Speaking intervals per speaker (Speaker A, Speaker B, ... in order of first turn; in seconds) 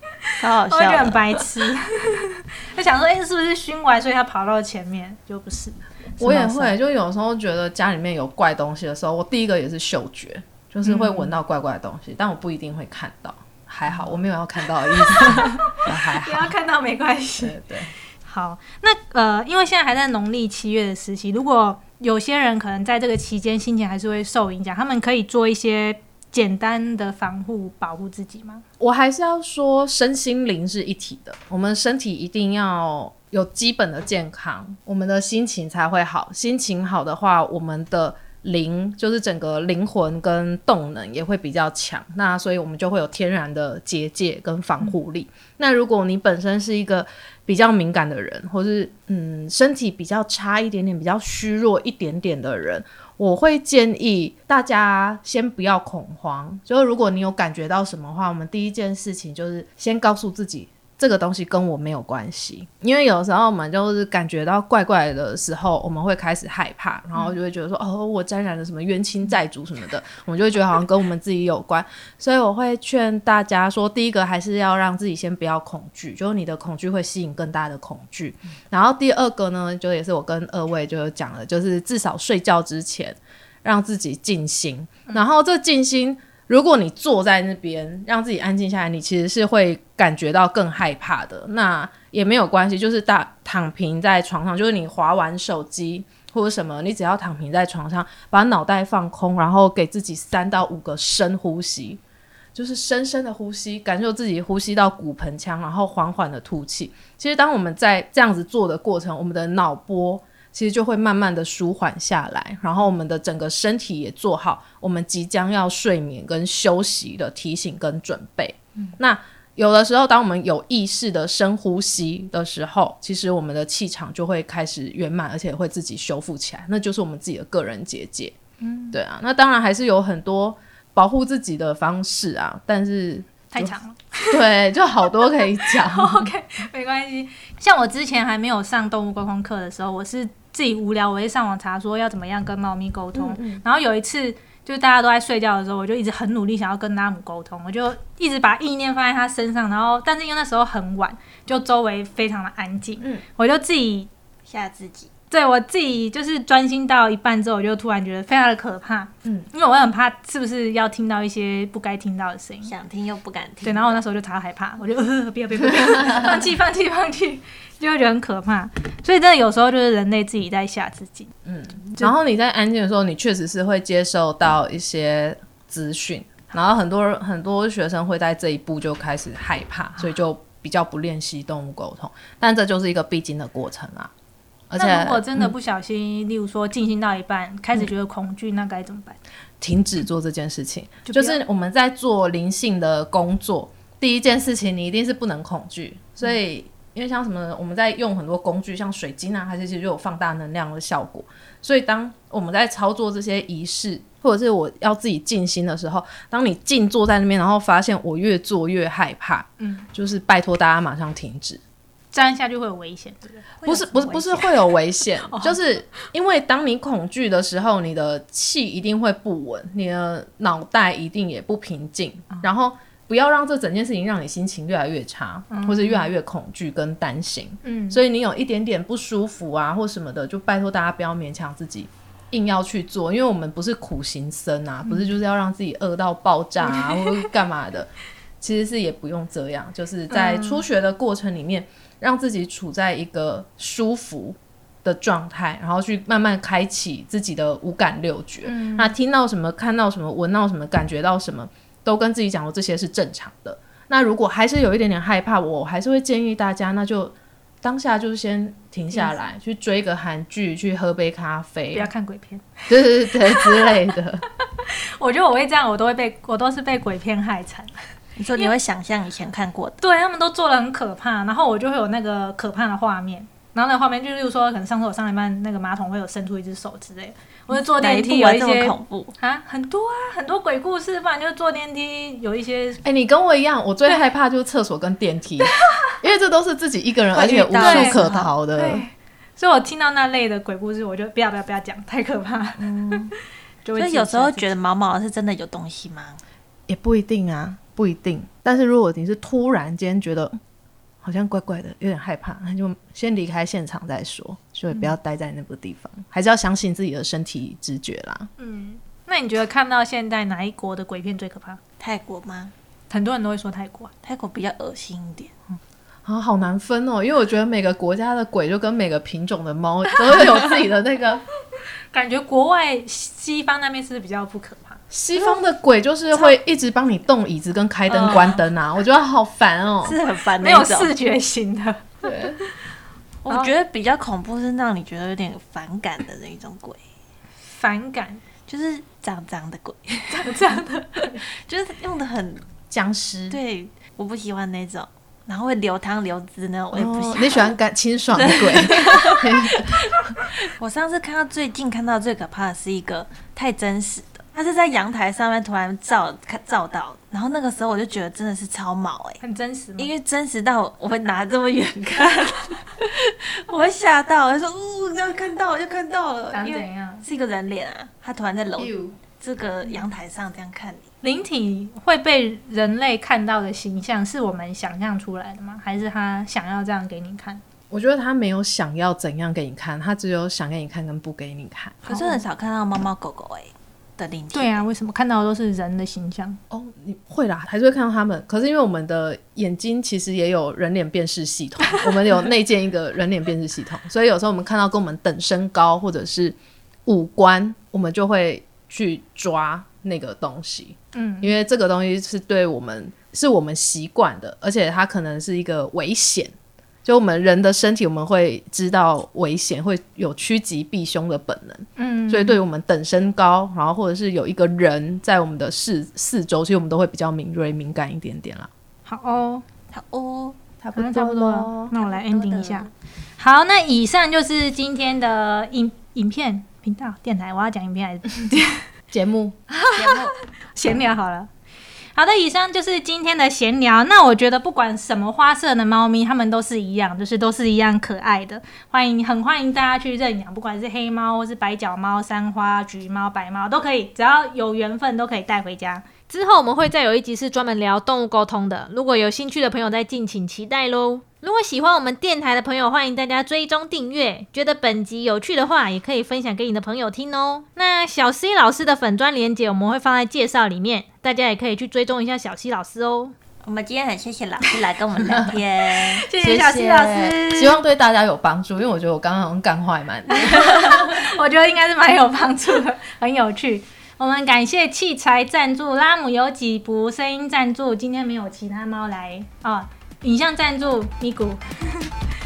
Speaker A: 0.2-6.8, 10.8-11.3, 13.9-14.1, 14.9-17.6, 18.2-28.6, 128.6-129.0, 133.5-134.4, 135.4-154.1, 155.3-162.7, 163.6-172.1, 184.8-189.2, 191.0-191.4, 209.6-209.9, 212.1-213.6, 215.3-215.6, 225.5-226.1, 227.6-228.0, 240.1-240.6, 248.4-248.9, 261.7-263.8, 264.5-267.7, 269.8-282.8, 287.6-288.0, 288.6-293.1, 293.6-294.5, 308.4-311.6, 312.9-313.9, 321.9-324.8, 330.4-332.5, 337.5-338.2, 340.1-341.2, 359.2-359.9, 366.3-367.0, 371.0-377.4, 381.8-382.2, 384.3-386.4, 400.9-401.3, 411.8-412.4, 418.9-419.4, 420.7-428.6, 429.5-431.3, 431.9-463.1, 465.7-467.6, 470.1-481.9
Speaker B: 0.4-1.5, 154.5-155.1, 162.6-164.0, 213.6-214.5, 268.2-269.8, 277.8-279.1, 287.1-288.3, 293.8-296.2, 311.8-312.5, 314.0-315.3, 327.9-328.4, 329.8-330.9, 333.2-336.8, 338.5-342.4, 343.3-347.6, 348.1-359.2, 359.8-370.9, 381.9-384.6, 419.7-420.4, 421.8-422.7, 429.7-430.1, 463.4-466.0
Speaker C: 6.2-16.5, 17.4-17.9, 28.8-102.0, 102.5-128.3, 128.9-133.8, 134.3-136.3, 143.1-143.6, 165.8-166.2, 171.5-184.1, 184.7-185.5, 189.6-211.6, 213.7-237.9, 238.4-261.9, 262.7-264.2, 282.8-288.8, 292.8-293.1, 296.7-300.4, 301.0-308.3, 316.0-321.2, 324.9-330.0, 332.0-332.4, 342.7-343.4, 346.7-349.8, 368.6-368.9, 377.7-381.8, 386.5-406.3, 406.8-418.5, 420.6-421.7, 428.9-429.4, 466.2-470.8